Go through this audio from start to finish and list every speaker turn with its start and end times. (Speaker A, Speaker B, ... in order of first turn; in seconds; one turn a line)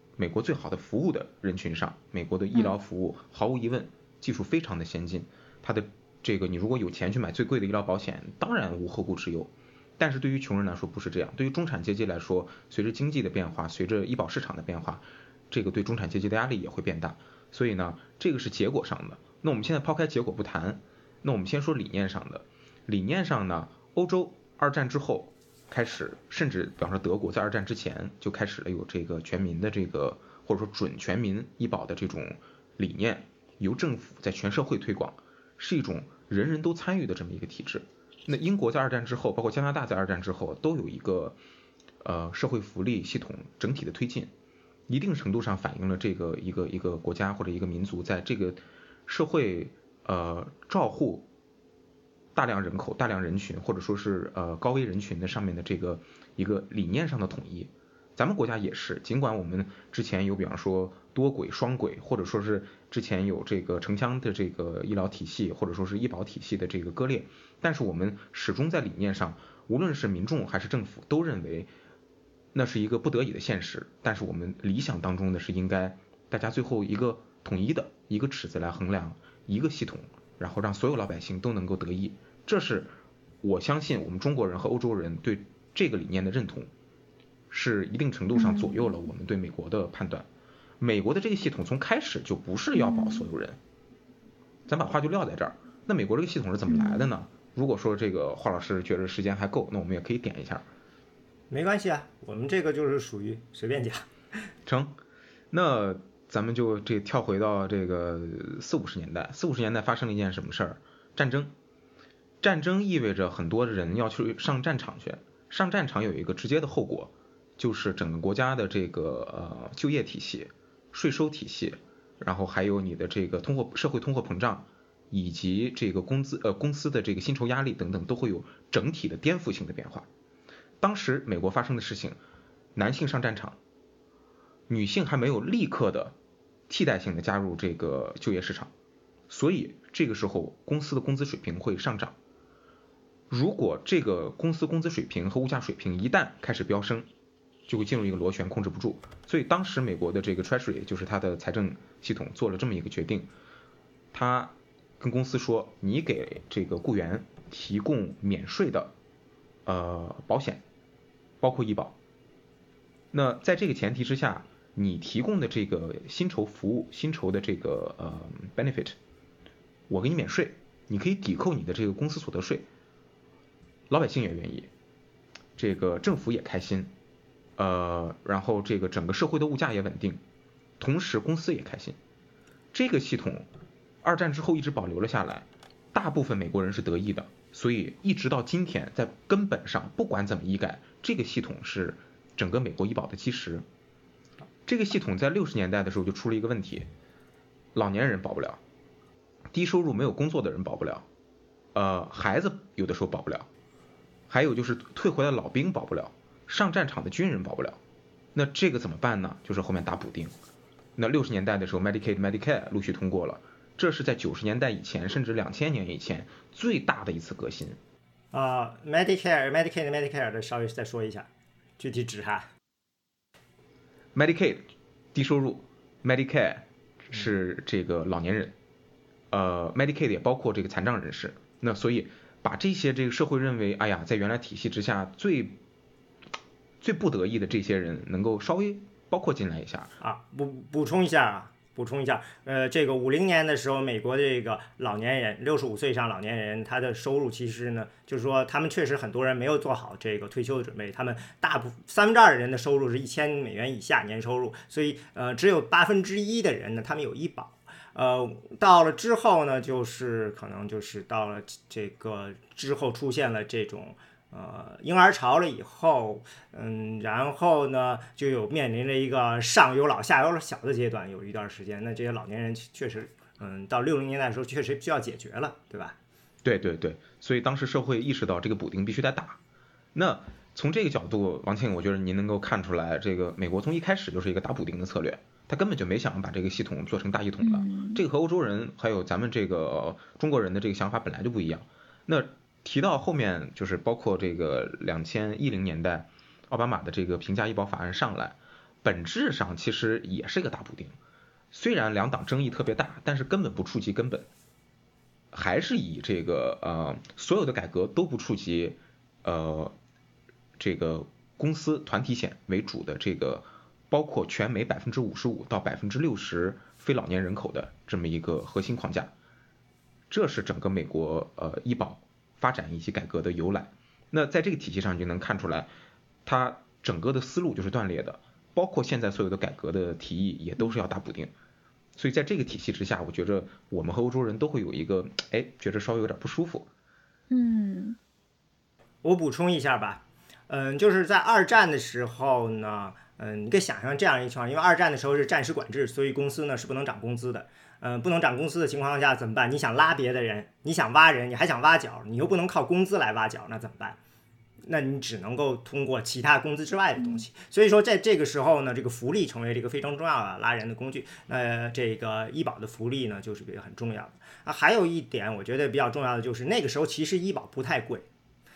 Speaker A: 0.2-41.4
Speaker A: 42.0-44.3
Speaker A: 44.9-51.3
Speaker A: 52.4-71.7
Speaker A: 72.5-86.7
Speaker A: 87.5-90.3
Speaker B: 88.3-88.9
Speaker A: 90.8-93.6
Speaker B: 92.8-93.3
Speaker A: 94.7-100.7
Speaker B: 96.7-97.1
Speaker C: 101.5-104.1
Speaker A: 104.7-105.0
Speaker A: 105.5-111.5
Speaker A: 112.4-130.1
Speaker A: 130.8-132.2
Speaker A: 132.8-133.6
Speaker A: 134.7-136.2
Speaker A: 136.7-138.7
Speaker A: 139.3-142.2
Speaker A: 143.3-147.1
Speaker A: 147.7-153.3
Speaker A: 154.1-158.9
Speaker A: 159.7-160.6
Speaker A: 161.4-162.0
Speaker A: 163.1-169.0
Speaker A: 169.9-172.7
Speaker A: 173.9-174.7
Speaker A: 175.6-176.9
Speaker A: 177.6-180.2
Speaker A: 180.8-182.0
Speaker A: 182.7-183.5
Speaker A: 184.0-193.6
Speaker A: 194.7-196.9
Speaker A: 197.7-198.6
Speaker A: 199.5-201.1
Speaker A: 201.7-203.5
Speaker A: 204.3-207.8
Speaker A: 208.3-210.3
Speaker A: 211.0-217.8
Speaker C: 218.3-221.3
Speaker C: 221.8-222.5
Speaker A: 224.2-228.6
Speaker A: 229.3-235.6
Speaker A: 236.8-239.9
Speaker C: 240.0-276.0
Speaker A: 276.4-279.4
Speaker A: 279.9-301.0
Speaker B: 287.4-288.0
Speaker A: 301.5-304.3
Speaker A: 305.3-309.8
Speaker A: 310.6-319.1
Speaker A: 320.1-325.7
Speaker A: 326.2-331.3
Speaker A: 332.0-336.7
Speaker B: 337.3-338.0
Speaker C: 339.0-354.0
Speaker C: 354.6-368.1
Speaker B: 357.0-357.2